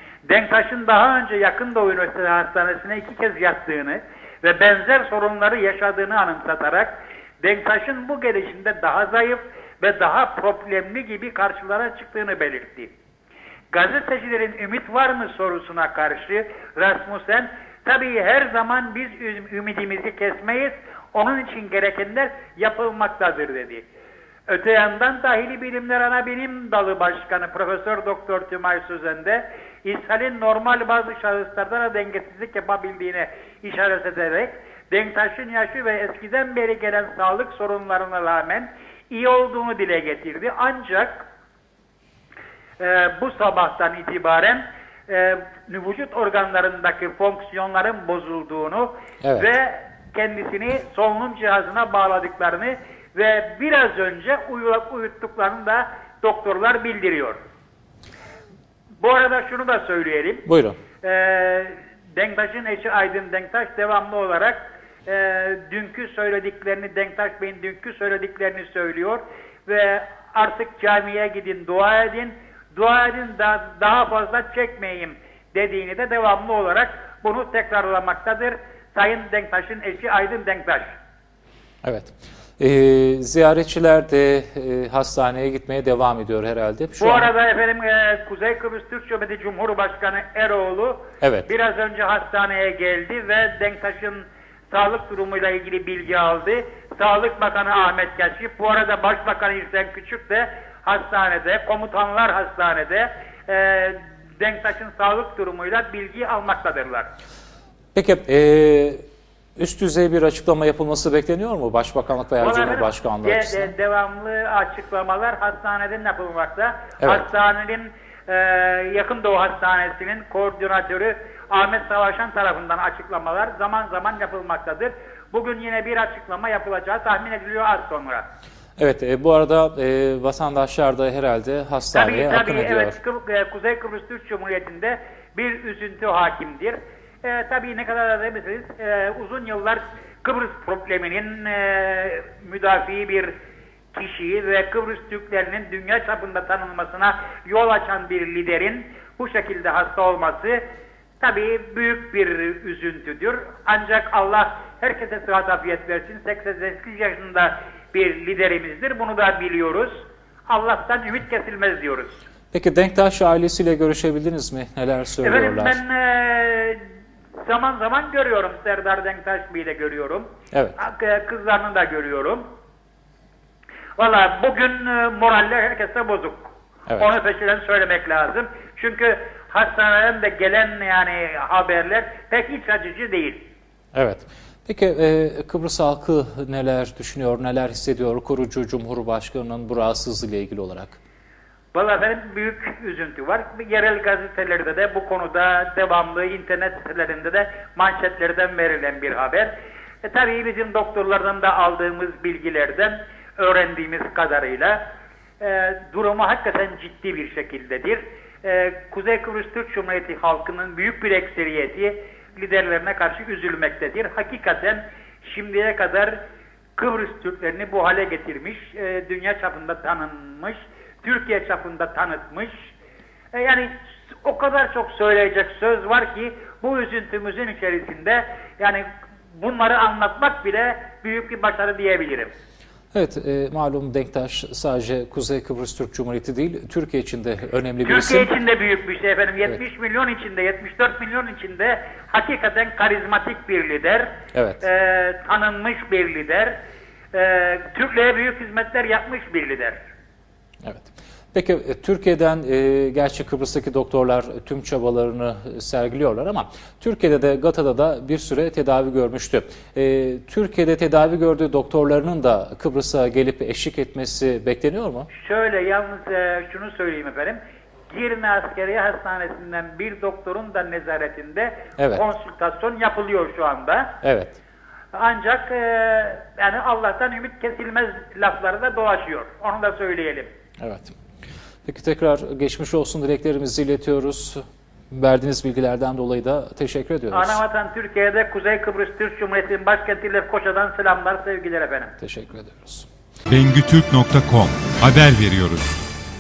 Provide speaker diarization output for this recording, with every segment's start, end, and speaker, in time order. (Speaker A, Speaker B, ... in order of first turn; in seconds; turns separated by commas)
Speaker A: 0.3-12.9, Speaker A: 13.7-23.9, Speaker A: 24.5-41.2, Speaker A: 42.8-57.4, Speaker B: 49.2-49.5, Speaker A: 59.0-60.5, Speaker B: 60.5-60.8, Speaker A: 61.0-81.0, Speaker B: 81.8-87.3, Speaker A: 87.0-107.1, Speaker B: 91.2-91.5, Speaker B: 108.0-109.0, Speaker B: 109.6-113.7, Speaker A: 112.4-128.2, Speaker B: 128.8-133.0, Speaker A: 131.9-143.3, Speaker A: 143.9-150.6, Speaker A: 151.2-162.2, Speaker B: 162.5-165.8, Speaker A: 165.2-166.8, Speaker A: 167.4-172.4, Speaker B: 170.5-170.8, Speaker A: 174.0-183.4, Speaker B: 183.9-191.0, Speaker A: 191.7-199.5, Speaker A: 200.0-204.8, Speaker A: 205.4-216.2, Speaker A: 216.8-222.7, Speaker A: 223.3-223.7, Speaker A: 224.2-232.3, Speaker B: 232.9-238.3, Speaker A: 237.8-246.6, Speaker B: 244.3-244.6, Speaker A: 247.1-249.8, Speaker B: 250.6-265.1, Speaker A: 265.1-267.4, Speaker A: 267.9-274.0, Speaker B: 271.8-272.0, Speaker B: 274.0-274.4, Speaker A: 274.9-280.3, Speaker B: 280.6-280.9, Speaker B: 281.6-287.4, Speaker A: 287.1-291.9, Speaker B: 292.0-292.9, Speaker C: 293.3-295.8